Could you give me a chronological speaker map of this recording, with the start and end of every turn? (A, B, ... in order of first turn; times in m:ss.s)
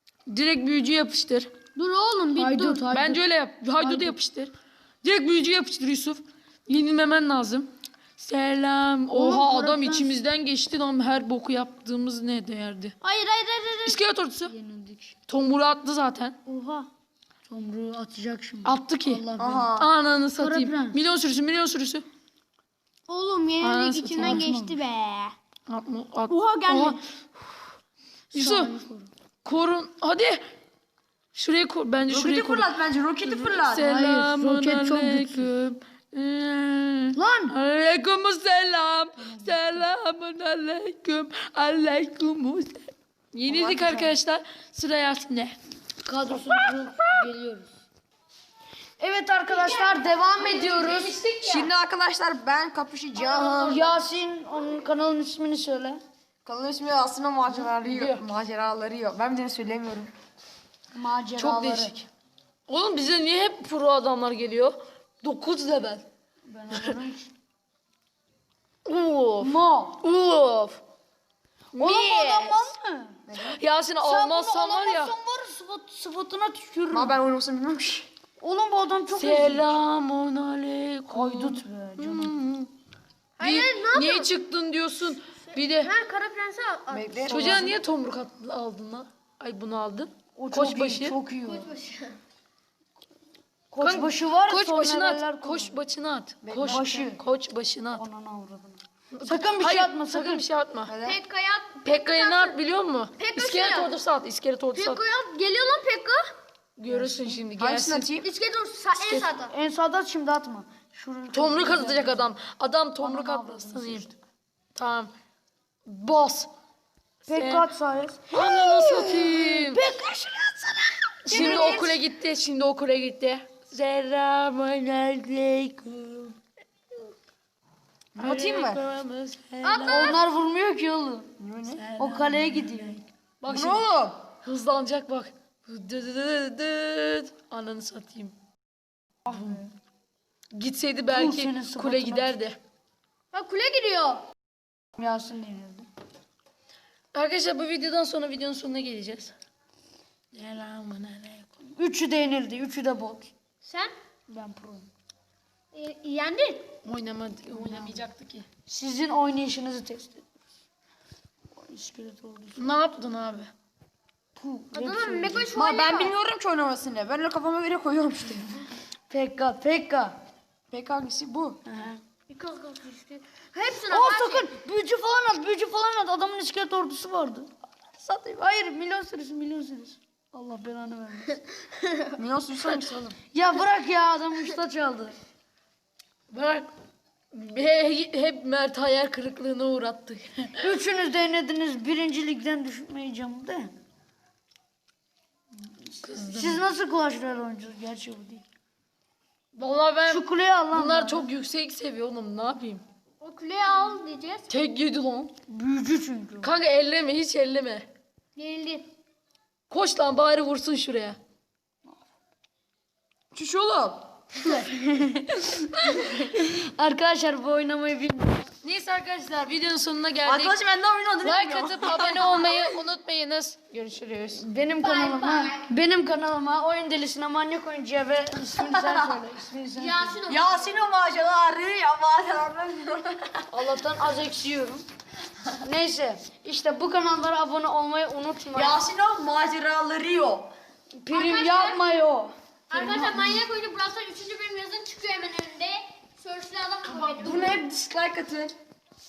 0:00.3-0:01.5 A
0:01.7-0:02.9 B
0:02.3-0:03.2 C
0:02.9-0:04.5 A
0:03.8-0:04.2 C
0:05.0-0:12.9 A
0:09.1-0:10.2 C
0:13.0-0:14.0 B
0:13.8-0:14.5 A
0:14.4-0:15.2 C
0:15.3-0:16.4 A
0:16.4-0:16.9 B
0:17.5-0:19.7 C
0:18.6-0:19.2 A
0:19.4-0:19.9 D
0:19.8-0:22.0 A
0:20.3-0:21.0 C
0:23.1-0:25.3 B
0:23.6-0:24.5 A
0:24.2-0:24.8 C
0:25.7-0:27.6 A
0:26.3-0:27.0 B
0:28.3-0:28.7 A
0:28.3-0:29.1 C
0:29.4-0:30.4 A
0:31.3-0:45.6 A
0:32.1-0:33.8 D
0:33.7-0:35.5 C
0:37.1-0:37.6 C
0:39.2-0:39.8 C
0:43.5-0:44.2 D
0:46.0-0:47.7 C
0:49.0-0:51.2 C
0:49.5-0:51.7 B
0:51.4-0:53.8 D
0:53.2-0:54.0 B
0:53.6-0:56.0 C
0:56.4-1:00.1 D
0:57.7-0:58.2 A
1:00.9-1:02.0 C
1:01.4-1:02.0 A
1:02.7-1:06.0 A
1:06.4-1:07.3 C
1:08.8-1:10.8 A
1:09.4-1:10.0 C
1:11.7-1:12.7 A
1:11.8-1:13.2 C
1:13.2-1:13.6 D
1:13.4-1:15.1 A
1:14.0-1:17.2 C
1:16.9-1:18.1 D
1:18.4-1:19.8 C
1:19.1-1:22.7 A
1:21.1-1:22.4 C
1:23.4-1:24.3 B
1:23.4-1:25.9 A
1:25.6-1:27.7 B
1:26.9-1:27.7 D
1:27.2-1:31.2 A
1:30.4-1:31.7 C
1:31.4-1:32.2 B
1:33.7-1:35.8 C
1:33.8-1:38.0 A
1:36.4-1:37.0 D
1:36.6-1:37.2 C
1:37.9-1:40.4 C
1:39.1-1:40.9 A
1:40.9-1:41.2 D
1:41.0-1:42.6 B
1:41.8-1:45.0 A
1:43.2-1:43.9 B
1:44.7-1:46.2 B
1:46.8-1:48.1 A
1:46.9-1:47.4 C
1:47.6-1:48.3 D
1:48.2-1:49.5 B
1:48.9-1:49.3 A
1:49.4-1:52.3 C
1:51.3-1:54.1 A
1:53.0-1:54.2 C
1:54.8-1:55.1 A
1:55.9-1:56.5 A
1:57.3-2:01.9 C
1:57.3-1:57.7 A
1:58.3-1:59.8 A
2:01.2-2:06.4 A
2:01.3-2:01.7 D
2:01.5-2:01.8 B
2:08.2-2:08.8 D
2:08.2-2:10.2 A
2:09.6-2:10.2 B
2:09.8-2:11.3 C
2:11.4-2:11.8 D
2:11.7-2:18.3 A
2:12.0-2:13.0 C
2:13.4-2:14.2 D
2:19.3-2:19.6 A
2:19.3-2:19.7 C
2:20.5-2:22.6 A
2:21.1-2:22.4 C
2:23.3-2:24.2 B
2:25.0-2:25.9 C
2:27.1-2:29.3 A
2:30.3-2:31.5 A
2:31.6-2:33.3 C
2:33.6-2:33.9 B
2:34.3-2:34.9 C
2:35.7-2:36.7 B
2:36.8-2:38.5 A
2:38.6-2:40.2 C
2:41.5-2:42.7 C
2:42.6-2:43.5 A
2:44.4-2:45.5 C
2:44.7-2:46.1 B
2:45.5-2:48.6 D
2:49.1-2:50.1 C
2:50.7-2:51.6 D
2:51.7-2:52.0 C
2:52.3-2:54.5 B
2:53.9-3:01.4 C
3:01.8-3:02.1 B
3:02.2-3:03.2 D
3:03.3-3:05.1 C
3:06.3-3:06.7 A
3:07.3-3:10.6 A
3:10.6-3:13.7 C
3:16.0-3:16.6 A
3:16.2-3:18.4 C
3:19.5-3:22.8 A
3:20.0-3:21.3 C
3:23.2-3:24.5 B
3:24.5-3:25.3 A
3:25.5-3:26.5 C
3:26.4-3:27.8 A
3:28.4-3:28.9 B
3:29.7-3:31.2 A
3:33.3-3:34.6 D
3:34.5-3:38.5 C
3:36.0-3:36.3 A
3:38.6-3:40.6 A
3:40.2-3:42.7 D
3:41.2-3:44.4 A
3:44.4-3:50.2 C
3:44.8-3:45.6 B
3:48.6-3:49.2 D
3:49.8-3:50.8 B
3:50.3-3:53.5 D
3:53.5-3:54.8 C
3:55.6-3:58.8 C
3:58.5-4:00.5 D
4:01.0-4:02.3 C
4:01.1-4:01.9 B
4:02.7-4:07.6 B
4:02.7-4:03.4 D
4:07.1-4:08.5 D